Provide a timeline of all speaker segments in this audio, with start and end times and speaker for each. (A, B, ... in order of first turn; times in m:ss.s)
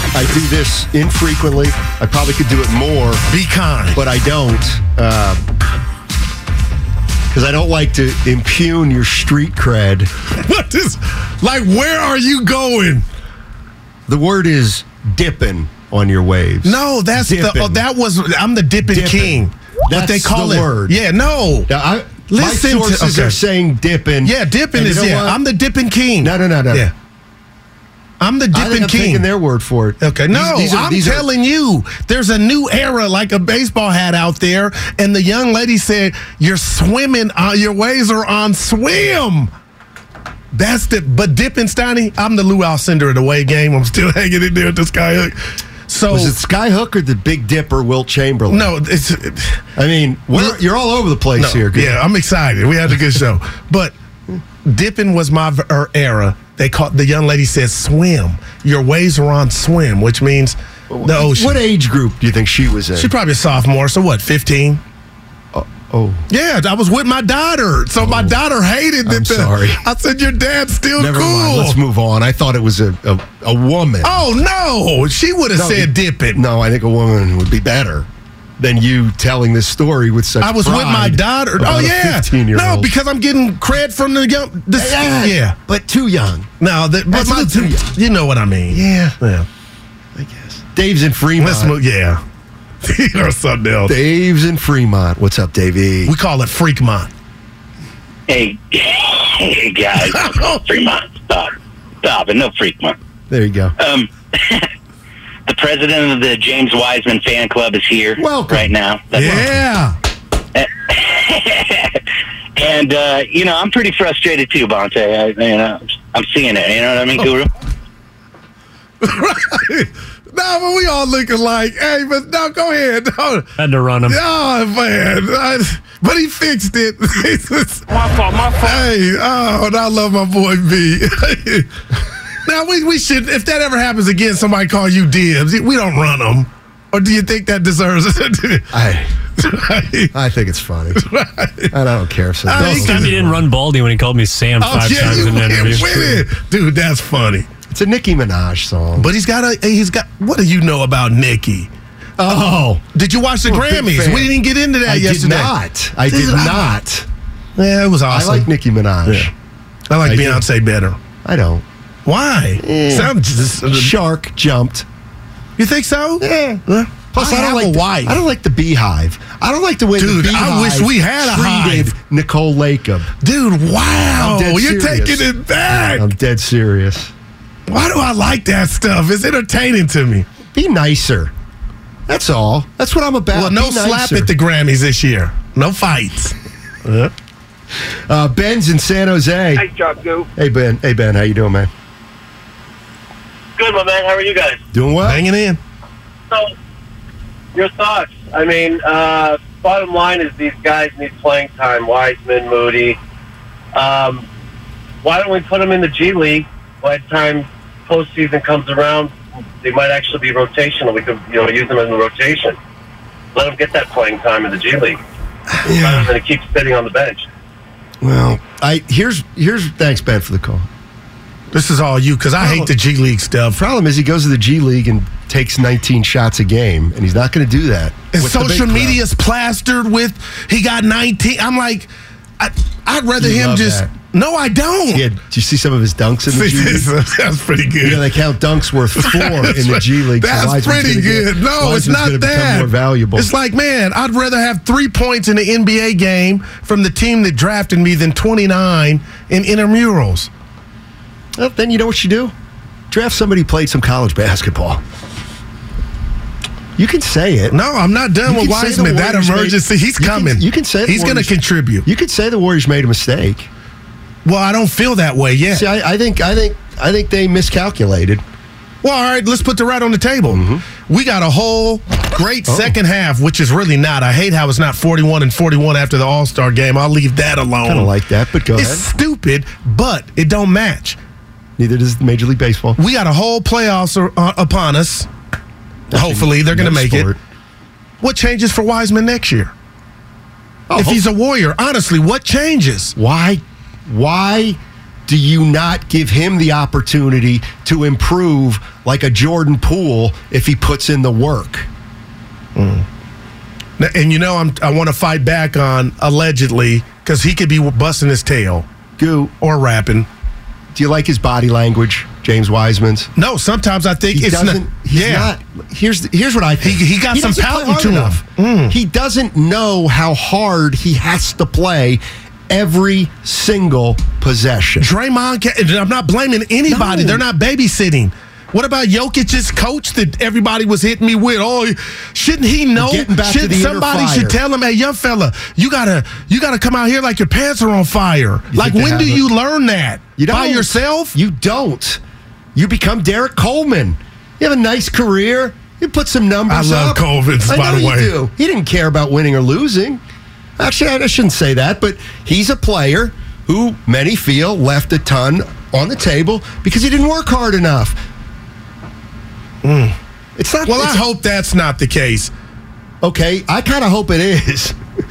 0:00.1-0:03.2 A
0:03.3-0:04.0 B
0:03.9-0:05.4 A
0:07.3-0:10.1 A
0:10.4-0:13.0 B
0:14.1-0:17.8 A
0:16.6-0:21.7 B
0:18.8-0:21.0 A
0:21.7-0:25.4 A
0:22.3-0:23.4 B
0:24.2-0:26.9 B
0:26.2-0:26.9 A
0:28.2-0:29.3 B
0:28.5-0:31.3 A
0:30.0-0:39.5 B
0:40.5-0:46.4 B
0:46.1-0:48.7 A
0:48.5-0:49.6 B
0:49.8-0:52.0 A
0:51.4-0:53.9 B
0:54.6-1:01.6 B
1:00.9-1:03.1 A
1:03.0-1:04.8 B
1:05.5-1:06.2 A
1:06.3-1:11.8 B
1:08.0-1:08.4 A
1:09.1-1:09.8 A
1:11.0-1:14.3 A
1:14.0-1:16.4 B
1:15.5-1:18.1 A
1:18.6-1:22.9 A
1:20.4-1:25.6 B
1:24.7-1:26.5 A
1:26.6-1:29.5 B
1:27.1-1:27.9 A
1:28.7-1:29.2 A
1:30.2-1:31.8 A
1:31.4-1:32.2 B
1:32.8-1:34.0 B
1:33.8-1:36.1 A
1:36.1-1:37.1 B
1:38.3-1:43.0 C
1:40.1-1:40.6 B
1:43.3-1:43.8 A
1:43.8-1:44.6 C
1:45.5-1:49.3 C
1:48.2-1:49.6 A
1:49.1-1:50.0 B
1:50.6-1:52.0 C
1:52.6-1:57.5 C
1:59.0-2:03.5 B
2:03.6-2:04.2 D
2:04.1-2:11.7 B
2:12.4-2:18.8 B
2:18.7-2:19.1 A
2:19.4-2:20.1 B
2:20.1-2:21.0 A
2:21.0-2:21.7 B
2:21.7-2:23.4 A
2:22.5-2:23.4 B
2:22.6-2:26.2 D
2:24.6-2:27.5 B
2:25.0-2:25.8 A
2:27.7-2:29.1 A
2:29.0-2:31.7 B
2:32.2-2:32.8 A
2:32.9-2:35.5 B
2:33.5-2:34.3 A
2:34.9-2:37.1 A
2:36.1-2:36.7 B
2:37.6-2:38.5 B
2:38.1-2:39.3 A
2:39.0-2:39.3 B
2:39.9-2:41.0 B
2:40.0-2:40.4 A
2:41.2-2:41.6 A
2:42.1-2:44.0 B
2:42.6-2:43.2 A
2:43.7-2:44.9 A
2:45.6-2:46.2 B
2:46.2-2:53.1 A
2:46.7-2:48.2 B
2:50.0-2:51.9 B
2:53.2-2:56.1 B
2:54.1-2:55.3 A
2:55.8-2:57.1 A
2:57.7-3:00.3 B
3:00.5-3:01.3 A
3:02.1-3:04.3 A
3:03.3-3:07.1 B
3:08.1-3:09.7 A
3:09.6-3:10.3 E
3:10.4-3:11.7 A
3:13.6-3:14.6 E
3:14.7-3:15.2 A
3:15.0-3:15.6 B
3:17.5-3:23.0 E
3:23.8-3:24.2 E
3:25.0-3:32.6 E
3:33.4-3:35.0 E
3:35.6-3:36.1 A
3:35.7-3:37.3 E
3:38.0-3:40.7 A
3:41.5-3:43.6 B
3:42.4-3:42.7 A
3:43.6-3:49.0 A
3:48.1-3:55.1 B
3:53.2-3:53.9 A
3:54.9-3:56.9 A
3:56.3-3:58.0 B
3:57.8-4:03.3 A
3:59.0-4:10.3 B
4:11.4-4:12.3 A
4:12.9-4:14.8 A
4:16.8-4:17.6 A
4:17.5-4:21.8 B
4:18.3-4:23.5 A
4:24.2-4:25.7 B
4:25.5-4:28.2 A
4:28.8-4:37.9 B
4:30.3-4:30.6 A
4:32.5-4:32.8 A
4:37.6-4:38.9 A
4:38.5-4:41.0 B
4:41.6-4:42.8 A
4:42.8-4:45.1 B
4:45.9-4:47.2 A
4:45.9-4:47.1 B
4:48.0-4:49.5 B
4:50.7-4:51.0 A
4:50.8-4:53.0 B
4:53.0-5:01.7 A
5:02.6-5:02.8 B
5:03.8-5:08.7 B
5:09.0-5:09.3 A
5:09.4-5:10.1 B
5:10.7-5:13.1 A
5:13.2-5:15.3 B
5:14.1-5:24.9 A
5:16.6-5:18.8 B
5:24.8-5:41.2 B
5:26.7-5:27.2 A
5:32.8-5:34.4 A
5:38.5-5:39.2 A
5:40.2-5:42.0 A
5:42.6-5:50.0 A
5:46.5-5:48.1 B
5:50.6-5:58.0 A
5:59.6-6:00.0 B
6:00.4-6:01.0 A
6:00.7-6:02.3 B
6:03.0-6:04.8 A